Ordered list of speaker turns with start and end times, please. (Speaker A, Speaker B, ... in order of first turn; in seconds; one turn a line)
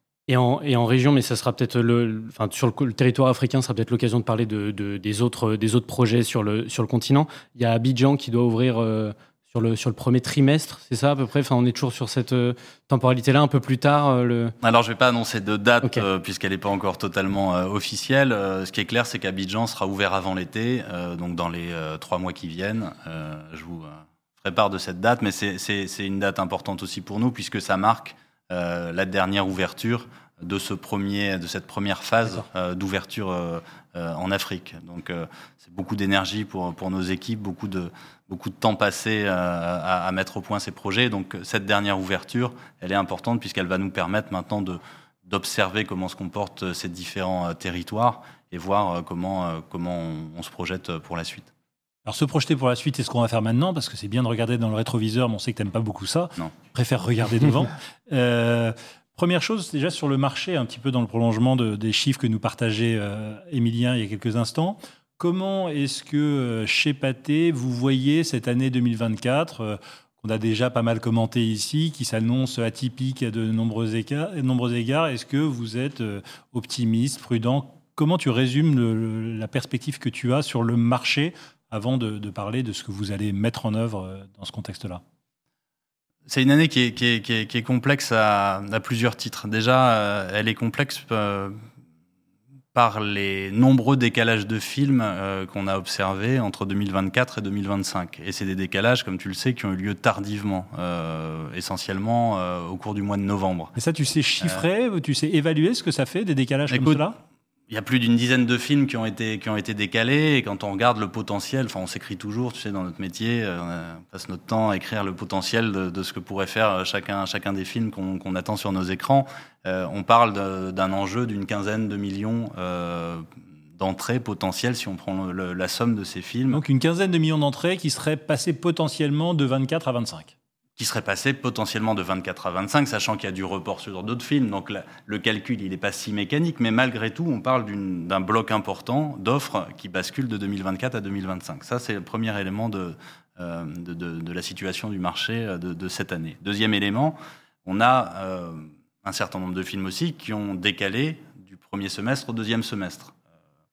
Speaker A: 0.3-14.6
Speaker B: 14.6-51.5
Speaker C: 52.1-85.0
Speaker B: 86.3-91.6
Speaker B: 92.7-103.7
Speaker C: 103.8-107.2
Speaker B: 106.7-107.0
Speaker B: 107.7-123.3
Speaker B: 123.8-126.6
Speaker C: 126.5-130.3
Speaker B: 130.8-153.2